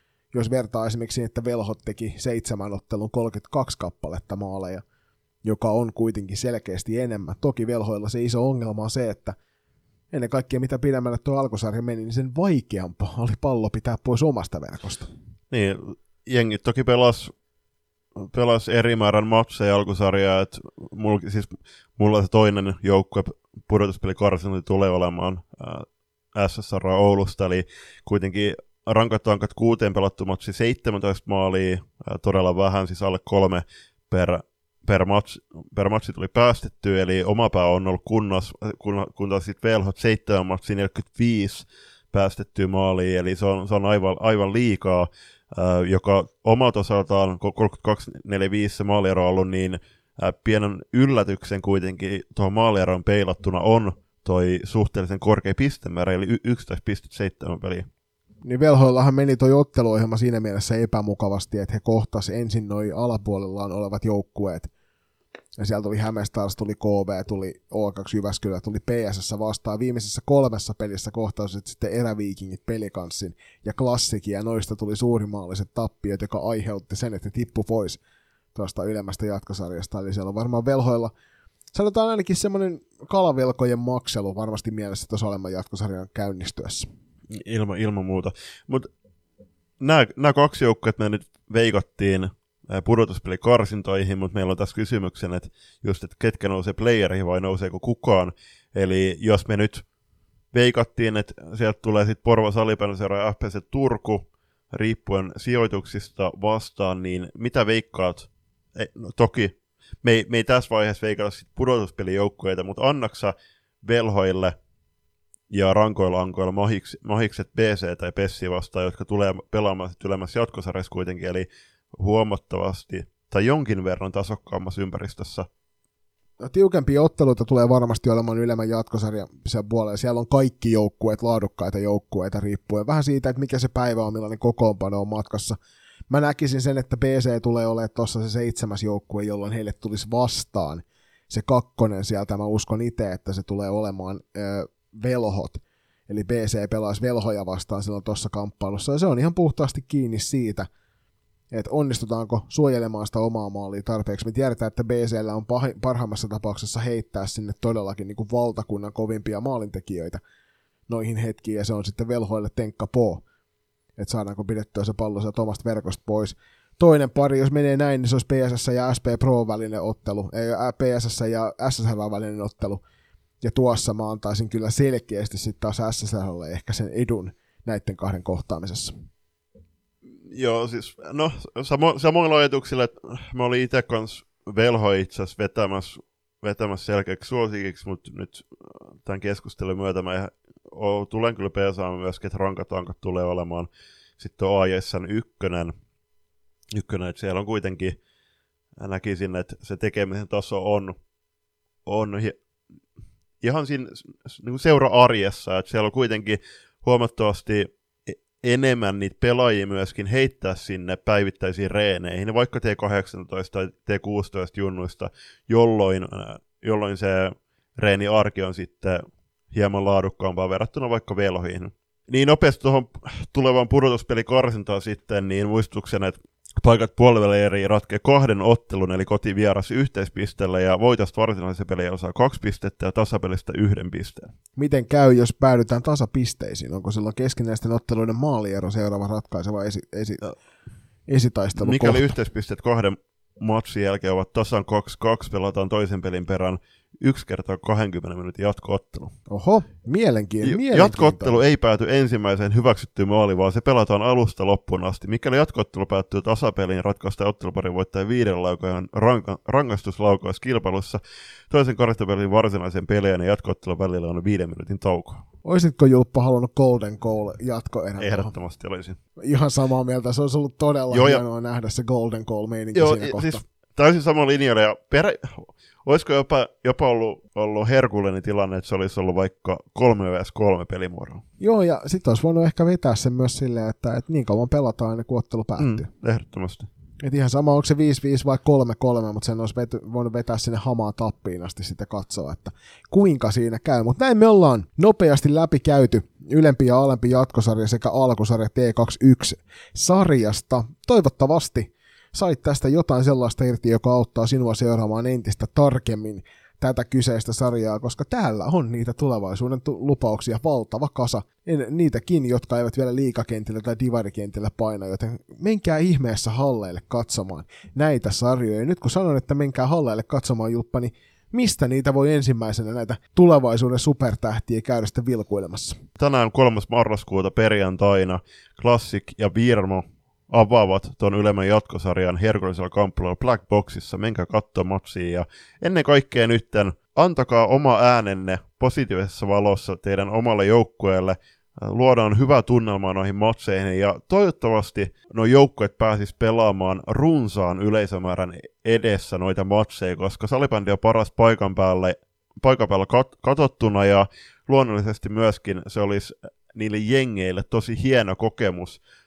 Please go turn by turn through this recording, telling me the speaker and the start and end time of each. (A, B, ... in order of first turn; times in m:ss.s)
0:00.3-0:04.8 A
0:05.4-0:09.4 A
0:10.1-0:15.1 A
0:15.5-0:17.3 B
0:18.2-0:57.9 B
0:58.4-1:04.7 A
1:05.6-1:18.0 A
1:18.5-1:21.1 A
1:21.7-1:26.9 A
1:27.3-1:28.9 B
1:29.8-1:39.8 B
1:40.5-1:54.6 B
1:55.5-2:05.5 B
2:06.4-2:15.6 A
2:16.1-2:30.7 A
2:31.5-2:40.2 A
2:40.9-2:43.2 A
2:44.0-2:52.8 A
2:53.4-2:59.0 A
3:00.2-3:15.7 B
3:16.7-3:18.0 B
3:18.8-3:21.0 B
3:21.8-3:22.4 B
3:23.4-3:54.3 B
3:54.6-4:00.3 A
4:01.1-4:02.1 A
4:01.6-4:09.2 B
4:09.3-4:11.4 A
4:10.4-4:25.2 B
4:25.4-4:28.3 A
4:28.0-4:29.0 B
4:29.2-4:33.4 A
4:30.9-4:31.2 B
4:32.7-4:41.2 B
4:41.4-4:45.9 A
4:45.6-4:46.7 B
4:47.0-5:25.8 A
5:26.0-5:58.8 B